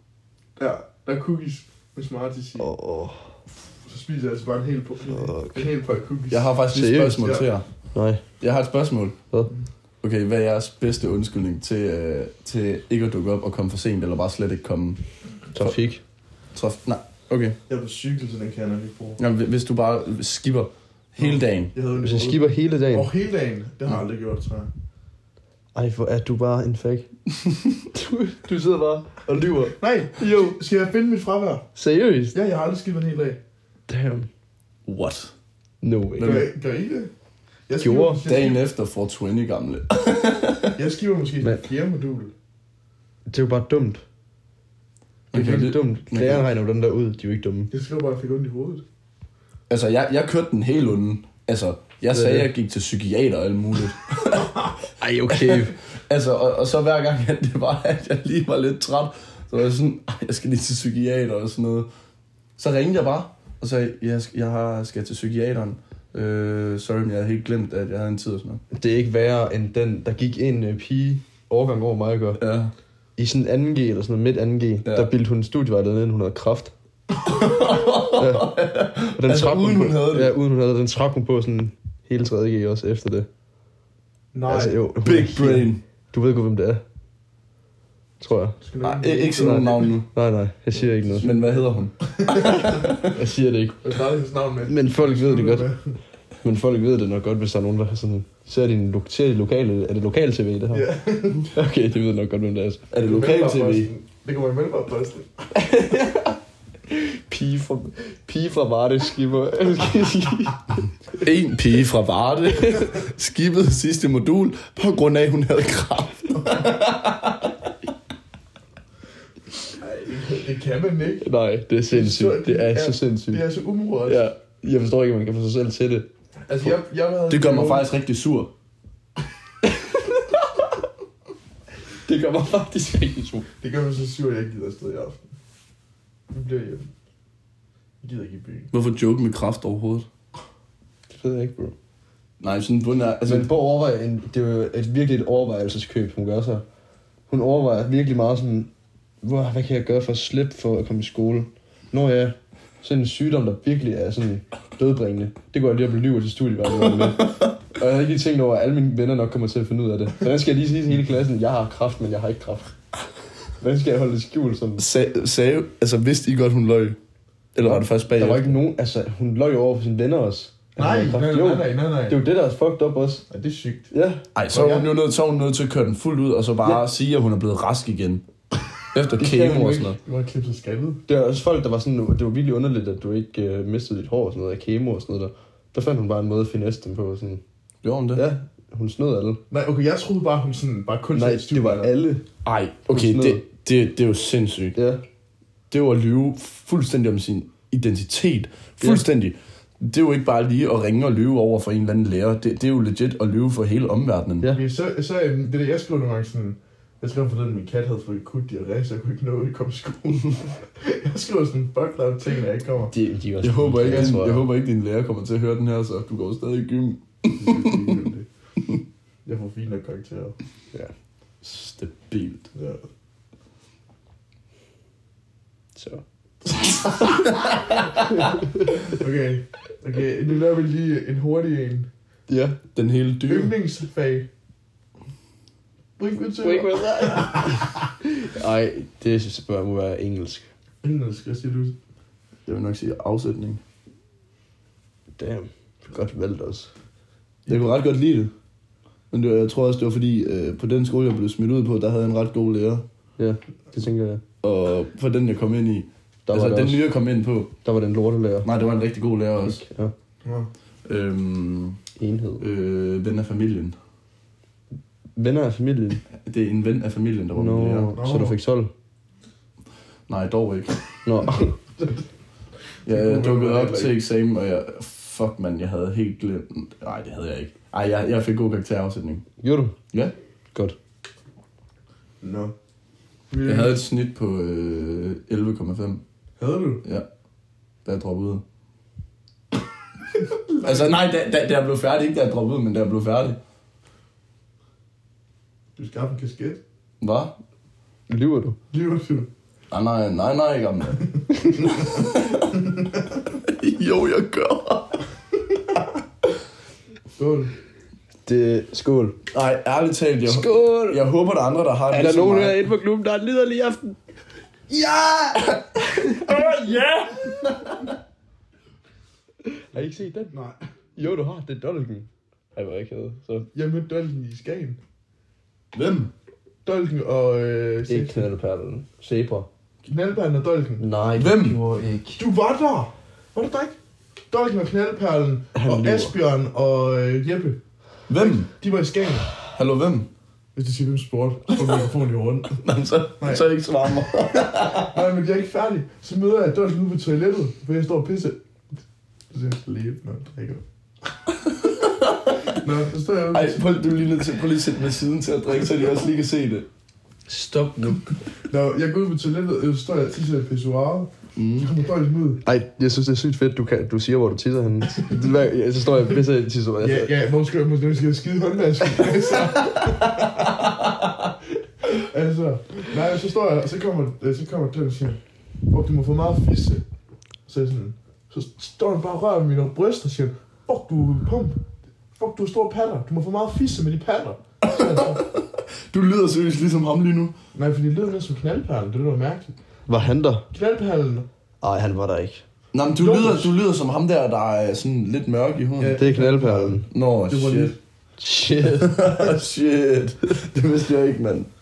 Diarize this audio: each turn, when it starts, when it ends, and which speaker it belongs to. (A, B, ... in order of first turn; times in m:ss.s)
0:00.6-0:02.7 A
0:02.6-0:03.3 B
0:03.9-0:06.5 A
0:05.1-0:05.6 B
0:06.3-0:07.7 C
0:06.7-0:07.3 B
0:07.0-0:07.5 A
0:07.9-0:08.2 B
0:08.4-0:09.2 C
0:10.0-0:15.0 C
0:15.6-0:16.0 B
0:16.5-0:17.6 C
0:17.7-0:19.2 A
0:19.2-0:21.7 C
0:21.2-0:24.7 A
0:22.0-0:23.1 B
0:25.8-0:27.1 B
0:27.9-0:30.6 B
0:29.7-0:31.7 A
0:31.8-0:32.4 B
0:32.3-0:33.4 A
0:33.9-0:34.3 B
0:34.9-0:35.3 C
0:35.8-0:36.5 B
0:36.2-0:36.5 C
0:36.2-0:37.1 A
0:37.7-0:38.6 A
0:37.8-0:38.2 B
0:38.2-0:40.8 C
0:40.8-0:42.3 A
0:43.3-0:44.0 B
0:45.3-0:46.5 C
0:45.3-0:47.7 B
0:47.7-0:48.8 A
0:49.7-0:54.6 C
0:52.1-0:52.5 B
0:55.0-0:55.8 B
0:55.3-1:01.9 C
1:02.6-1:08.6 C
1:08.7-1:12.4 B
1:12.4-1:12.7 C
1:13.2-1:16.7 B
1:14.8-1:15.1 C
1:17.2-1:20.3 C
1:18.2-1:18.6 B
1:19.1-1:23.3 B
1:24.3-1:24.8 A
1:24.5-1:26.8 B
1:25.0-1:25.8 C
1:28.2-1:28.6 B
1:28.6-1:29.8 A
1:28.8-1:30.1 C
1:29.4-1:31.3 B
1:30.7-1:32.9 A
1:31.2-1:33.1 C
1:33.0-1:33.8 B
1:33.8-1:36.0 A
1:34.7-1:35.7 B
1:36.4-1:40.9 B
1:40.7-1:41.5 A
1:41.5-1:42.8 B
1:42.9-1:43.9 C
1:43.0-1:45.5 A
1:45.6-1:46.4 B
1:46.9-1:50.6 B
1:51.2-1:57.5 C
1:59.8-2:01.3 A
2:01.2-2:03.4 B
2:01.9-2:04.3 A
2:04.1-2:06.1 B
2:06.5-2:07.9 A
2:07.3-2:08.5 C
2:09.9-2:10.2 B
2:12.1-2:13.5 B
2:13.6-2:15.2 A
2:16.3-2:16.9 A
2:18.0-2:18.7 A
2:18.7-2:20.1 C
2:21.1-2:21.8 B
2:22.4-2:23.5 C
2:23.2-2:26.6 B
2:27.3-2:28.7 B
2:29.2-2:42.7 B
2:43.6-2:44.8 B
2:44.8-2:47.0 C
2:47.5-2:48.6 C
2:47.6-2:53.2 B
2:50.8-2:52.2 A
2:53.3-2:53.9 A
2:53.9-2:54.3 B
2:54.4-2:58.2 C
2:54.5-2:54.9 A
2:58.9-3:00.0 C
2:59.2-2:59.8 B
2:59.2-3:01.0 A
3:01.1-3:07.4 B
3:07.8-3:08.3 C
3:08.1-3:09.4 B
3:09.5-3:11.9 A
3:11.1-3:12.2 B
3:12.4-3:14.8 C
3:12.9-3:13.4 B
3:14.8-3:15.0 B
3:15.7-3:24.5 C
3:24.5-3:32.9 A
3:32.9-3:34.4 B
3:33.4-3:38.0 C
3:37.4-3:38.3 A
3:39.2-3:40.4 A
3:41.4-3:42.5 C
3:42.5-3:42.8 A
3:45.8-3:46.0 B
3:46.7-3:47.5 C
3:48.1-3:48.8 B
3:48.9-3:51.9 A
3:52.3-3:52.6 B
3:52.8-3:53.5 C
3:53.3-3:54.3 A
3:56.0-3:57.7 A
3:56.4-4:00.5 B
4:00.8-4:01.8 A
4:02.5-4:03.6 C
4:05.2-4:06.7 B
4:07.5-4:08.3 C
4:09.1-4:12.8 C
4:13.2-4:14.2 B
4:14.4-4:17.5 C
4:16.3-4:16.9 B
4:17.6-4:18.5 B
4:18.4-4:19.6 C
4:19.4-4:19.9 B
4:20.8-4:21.8 C
4:22.0-4:22.4 B
4:22.4-4:23.8 C
4:25.2-4:26.0 B
4:26.2-4:27.9 C
4:27.4-4:28.7 B
4:28.0-4:28.4 A
4:30.1-4:30.8 C
4:31.0-4:31.6 B
4:32.9-4:34.0 A
4:32.9-4:39.2 C
4:39.4-4:39.8 B
4:42.2-4:42.5 A
4:43.3-4:43.8 A
4:43.4-4:46.0 C
4:46.4-4:46.8 A
4:47.8-4:48.4 C
4:50.2-4:50.9 A
4:50.6-4:53.4 C
4:55.8-4:56.6 A
4:57.0-4:57.4 C
4:58.1-4:58.6 B
4:58.7-4:59.3 A
4:59.7-5:01.1 C
5:01.6-5:02.6 C
5:03.4-5:05.0 C
5:07.2-5:07.5 A
5:08.3-5:09.2 B
5:09.3-5:12.6 C
5:10.3-5:11.0 B
5:11.9-5:14.0 B
5:14.7-5:17.4 B
5:19.5-5:20.3 B
5:19.8-5:20.6 A
5:21.0-5:22.1 B
5:22.6-5:23.4 C
5:22.8-5:23.4 B
5:23.5-5:24.8 A
5:25.7-5:26.1 C
5:26.6-5:28.3 A
5:27.9-5:29.5 B
5:29.8-5:30.8 A
5:30.8-5:32.2 B
5:31.2-5:31.6 C
5:32.2-5:33.7 A
5:34.3-5:37.6 A
5:35.5-5:36.1 B
5:38.1-5:38.5 C
5:38.2-5:39.3 A
5:39.5-5:40.1 C
5:40.6-5:42.6 A
5:42.6-5:45.0 C
5:43.2-5:43.5 A
5:44.4-5:48.4 A
5:49.3-5:50.6 A
5:51.4-5:52.5 C
5:52.4-5:53.6 A
5:53.3-5:56.7 C
5:57.3-5:58.1 B
5:58.5-6:02.4 A
6:01.4-6:01.7 C
6:02.4-6:07.1 B
6:06.8-6:10.4 A
6:11.9-6:16.8 A
6:17.5-6:21.6 A
6:22.2-6:25.2 A
6:24.6-6:27.4 C
6:27.5-6:29.5 A
6:29.9-6:30.4 B
6:30.5-6:31.3 A
6:31.6-6:32.4 B
6:32.7-6:36.0 C
6:32.9-6:33.5 A
6:35.8-6:37.8 A
6:36.0-6:36.9 B
6:36.9-6:37.8 C
6:38.2-6:39.0 B
6:38.8-6:41.5 C